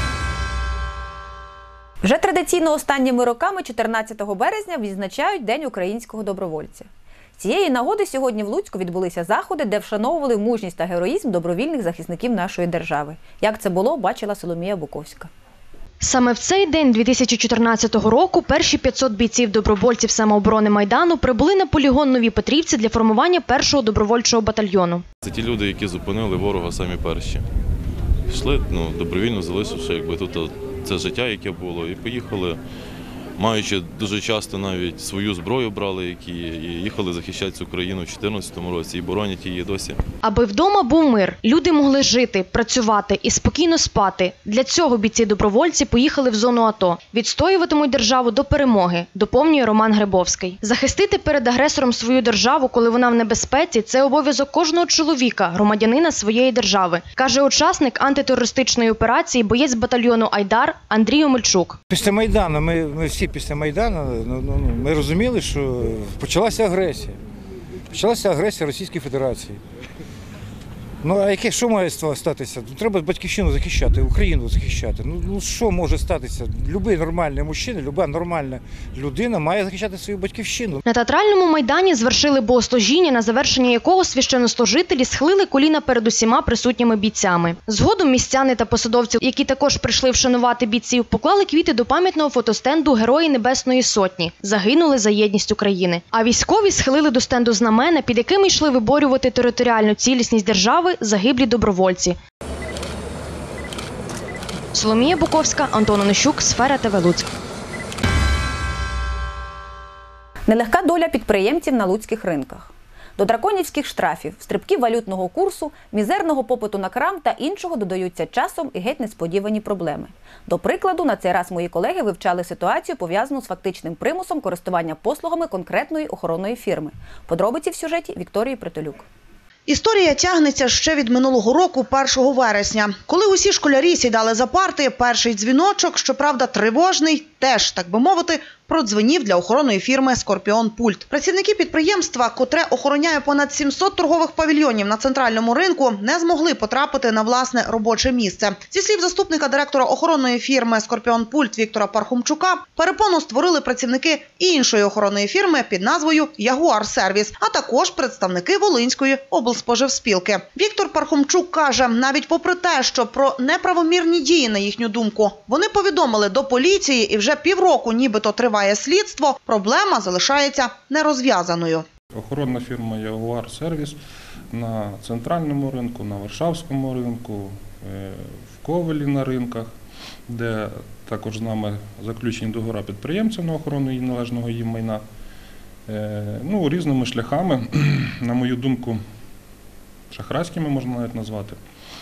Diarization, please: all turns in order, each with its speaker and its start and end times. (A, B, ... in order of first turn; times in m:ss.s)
0:02.0-0:15.3 A
0:16.0-0:25.0 B
0:25.2-0:27.5 C
0:28.3-0:32.6 C
0:33.4-0:40.0 C
0:40.2-1:01.8 B
1:01.9-1:07.2 D
1:07.9-1:09.6 D
1:11.0-1:20.8 D
1:20.8-1:42.2 B
1:44.7-1:47.3 B
1:50.5-2:09.1 A
2:09.7-2:51.8 E
2:52.1-2:54.0 F
2:54.5-2:59.7 F
3:00.3-3:05.0 F
3:05.9-3:09.0 F
3:10.1-3:11.6 F